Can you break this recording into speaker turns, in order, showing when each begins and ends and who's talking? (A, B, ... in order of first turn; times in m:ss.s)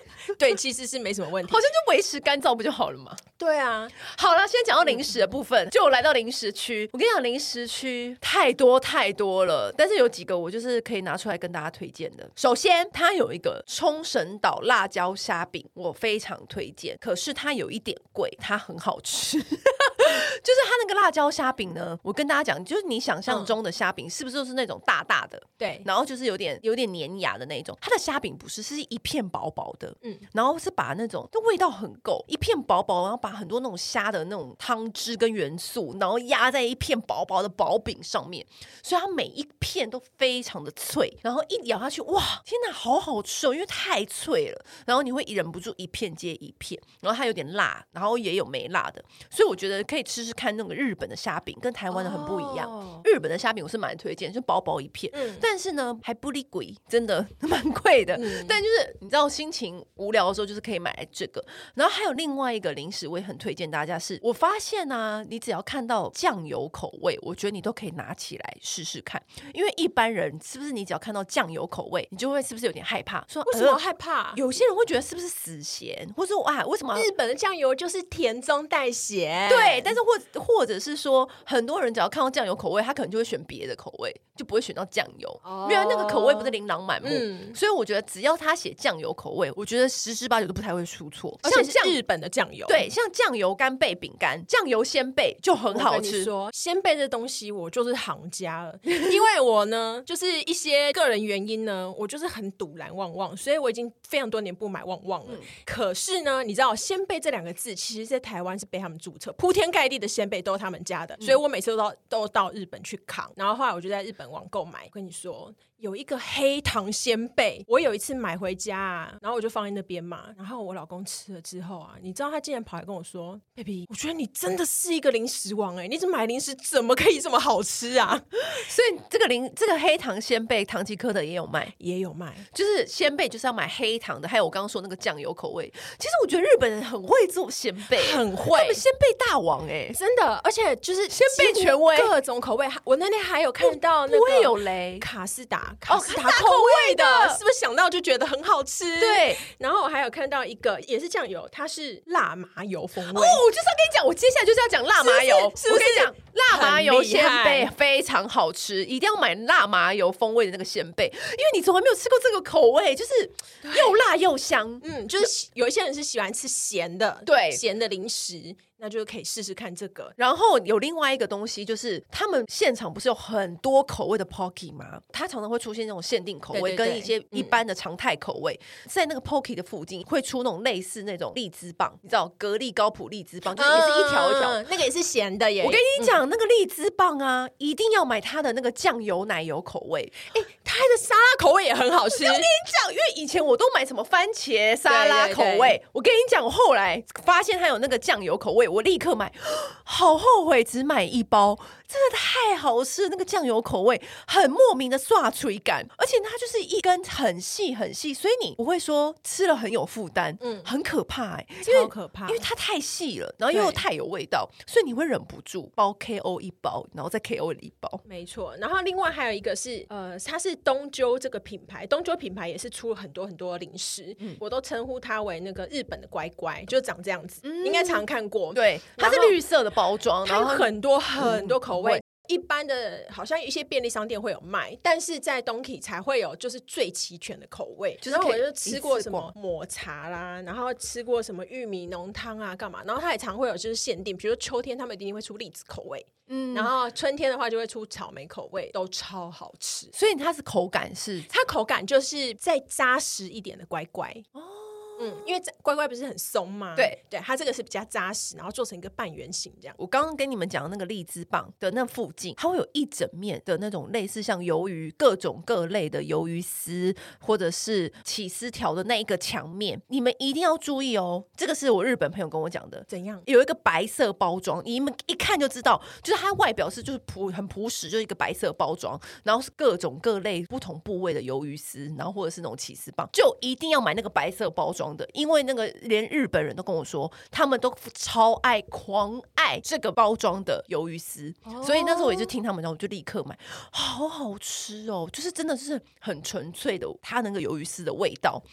0:00.3-0:01.6 A
0:01.5-0:03.2 B
0:03.4-0:04.0 A
0:04.0-1:13.8 B
0:04.8-0:05.1 A
0:23.3-0:23.5 A
0:25.6-0:25.8 A
0:51.9-0:53.0 A
0:55.1-0:55.4 A
0:58.2-0:58.6 A
1:13.5-1:14.4 A
1:14.3-1:17.1 B
1:16.9-1:20.0 A
1:19.5-1:32.0 B
1:25.4-1:27.6 A
1:31.4-1:32.8 A
1:32.7-1:36.3 B
1:35.7-2:08.4 A
2:08.4-2:11.7 B
2:11.8-2:12.5 A
2:12.5-2:20.0 B
2:17.9-2:18.8 A
2:19.9-2:33.4 A
2:21.1-2:22.1 B
2:23.6-2:25.1 B
2:25.9-2:27.4 B
2:29.0-2:29.4 B
2:33.0-2:45.2 B
2:35.0-2:37.7 A
2:43.6-2:44.0 A
2:44.8-2:50.1 A
2:47.2-2:47.6 B
2:50.2-3:04.6 B
2:56.5-2:57.6 A
3:03.5-3:06.2 A
3:05.6-3:10.2 B
3:10.3-3:12.5 A
3:12.1-3:38.0 B
3:14.9-3:15.8 A
3:30.4-3:30.7 A
3:31.6-3:32.4 A
3:33.5-3:33.8 A
3:38.1-3:49.4 A
3:47.4-3:52.0 B
3:50.2-4:09.9 A
3:58.0-3:59.3 B
4:06.3-4:06.7 B
4:09.9-4:11.3 B
4:11.3-4:14.3 A
4:14.3-4:15.3 B
4:15.0-4:19.8 A
4:19.8-4:58.4 B
4:32.9-4:33.3 A
4:51.4-4:52.3 A